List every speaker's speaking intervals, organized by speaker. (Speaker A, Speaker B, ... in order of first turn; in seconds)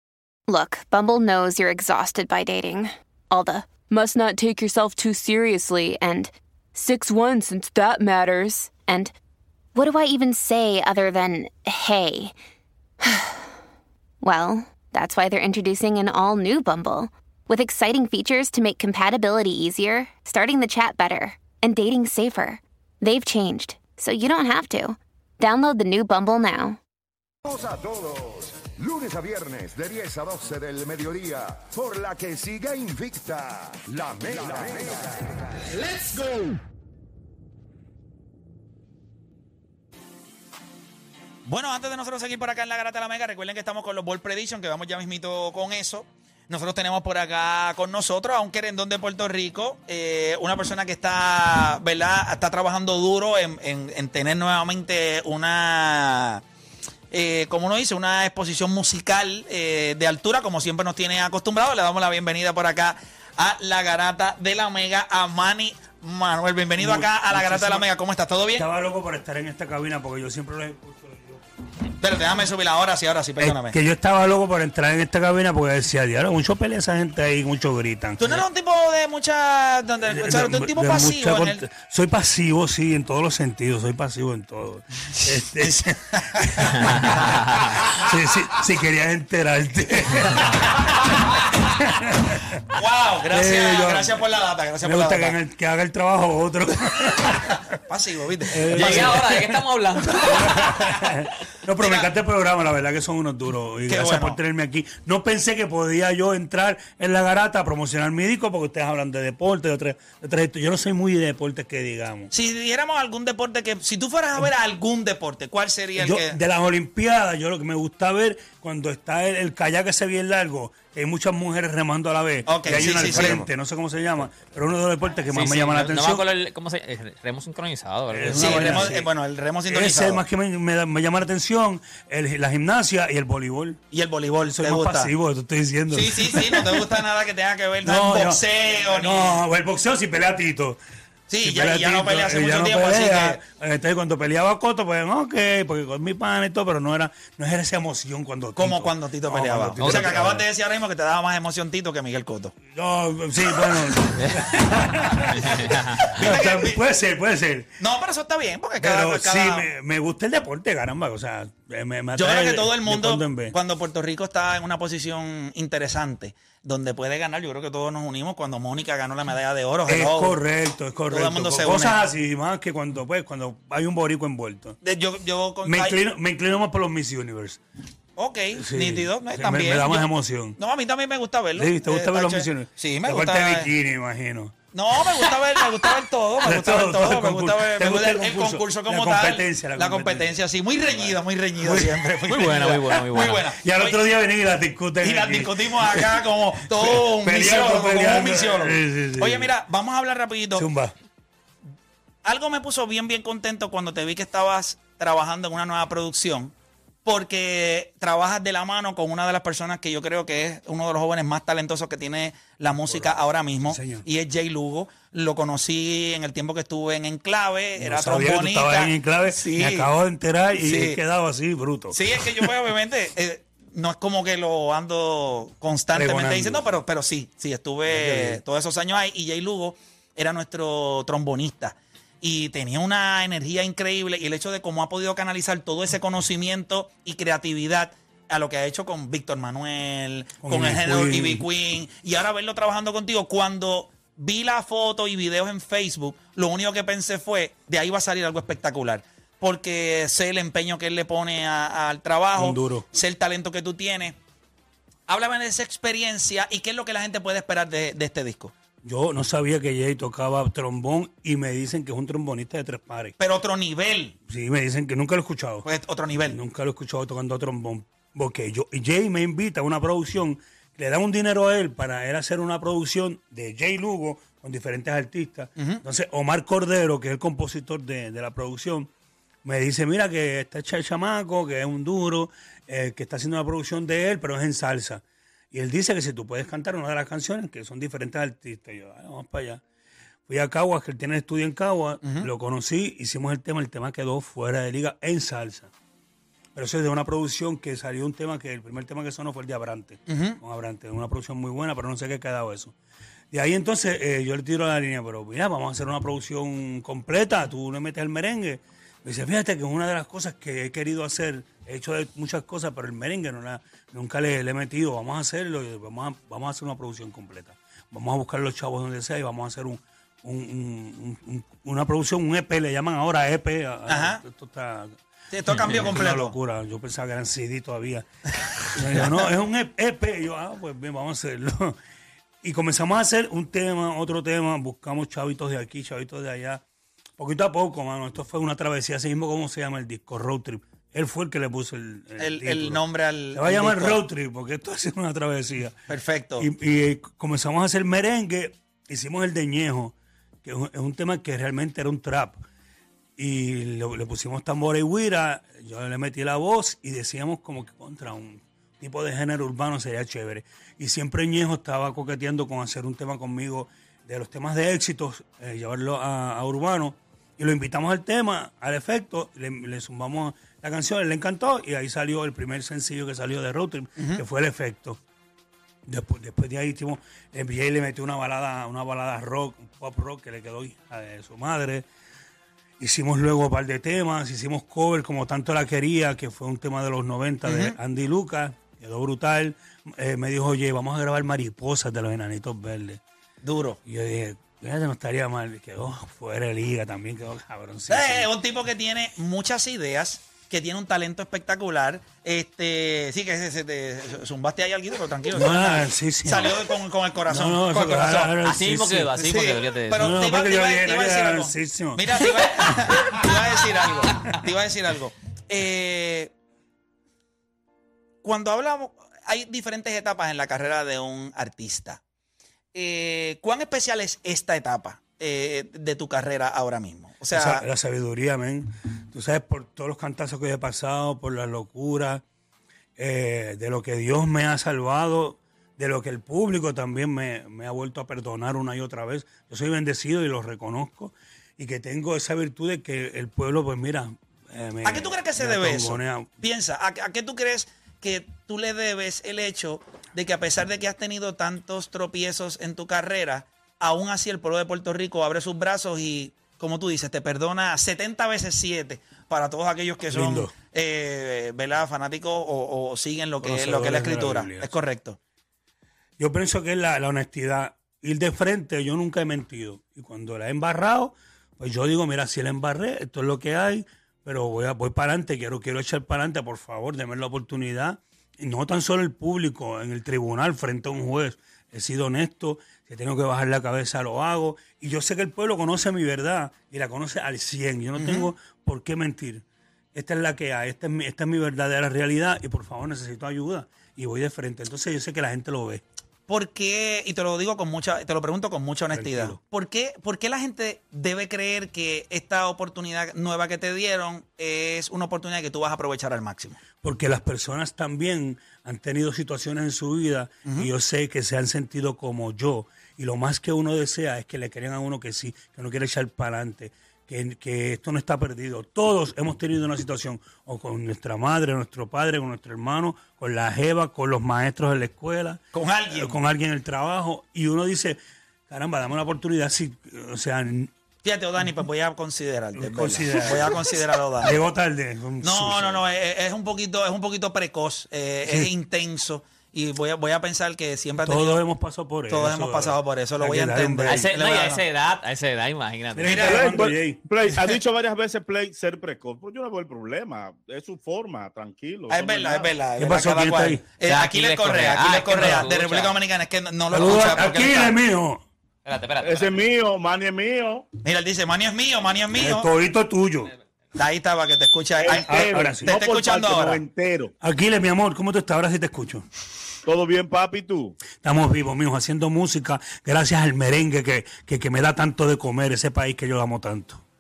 Speaker A: 0.5-9.1, 9.8-12.3, 13.1-13.4, 14.2-26.8
Speaker B: 27.4-35.6
Speaker C: 41.5-56.4, 57.1-68.6, 72.0-73.8, 78.2-81.6, 85.6-86.8, 92.8-95.4, 97.9-99.2, 101.8-102.1, 103.9-104.4, 112.3-116.4, 122.5-123.5, 128.4-130.2, 133.9-135.1, 135.9-139.4, 141.3-143.4, 148.6-152.5, 156.2-156.8, 157.8-159.7, 162.1-170.4, 171.1-172.0, 174.8-176.0, 178.2-183.7, 184.7-194.0, 195.0-200.7, 202.2-206.5, 207.0-219.9, 220.5-221.0, 221.9-254.2, 255.1-258.5, 263.2-264.1, 265.6-266.4, 275.6-275.8, 292.0-292.3, 300.1-300.4, 323.9-324.2, 325.3-326.4, 342.2-344.0, 345.9-346.5, 374.0-374.2, 387.4-387.8, 393.4-393.8, 397.9-408.4, 409.2-416.3, 418.2-422.0, 422.7-427.6, 444.8-465.2, 488.0-488.3, 496.3-506.6, 525.5-526.2, 531.0-534.4, 535.2-541.4, 542.1-544.6, 546.1-546.3, 551.9-557.8, 560.8-562.5, 563.7-565.1, 565.7-566.6
Speaker D: 66.8-67.9, 68.5-71.4, 73.4-78.3, 80.0-87.3, 87.9-90.8, 91.6-92.6, 93.3-94.2, 94.8-97.7, 98.5-112.3, 116.0-126.2, 128.1-129.1, 129.7-133.8, 134.4-137.0, 137.8-140.8, 141.4-150.4, 152.7-157.7, 158.8-163.6, 169.8-174.8, 175.6-177.6, 178.5-180.6, 181.6-184.5, 186.4-199.5, 200.5-200.9, 212.7-214.0, 217.8-222.5, 225.9-226.7, 227.9-228.4, 240.4-241.4, 252.3-253.0, 258.8-263.1, 264.3-265.6, 266.2-278.9, 279.4-285.0, 285.5-289.6, 290.3-295.7, 296.5-302.7, 303.3-325.0, 325.5-328.1, 328.7-331.8, 332.4-336.6, 337.2-345.9, 346.4-352.4, 353.2-375.0, 375.9-381.9, 382.8-393.0, 393.9-398.3, 405.3-406.6, 407.3-409.1, 410.0-412.2, 427.3-432.2, 433.0-446.4, 460.1-460.5, 463.4-464.7, 466.2-495.8, 498.9-499.4, 506.8-530.7, 532.5-535.8, 538.2-538.5, 541.0-544.1, 545.9-547.0, 552.8-553.6, 555.1-555.5, 556.7-558.2, 562.1-563.3, 565.0-565.8, 567.2-569.0, 571.0-576.8
Speaker E: 98.5-100.8, 125.3-128.9, 149.8-150.2, 155.4-156.0, 192.3-193.4, 325.5-325.9, 408.4-410.2, 543.9-546.5, 553.8-556.0, 558.6-559.5
Speaker F: 546.1-552.6, 559.0-560.6, 564.7-567.1, 569.6-570.8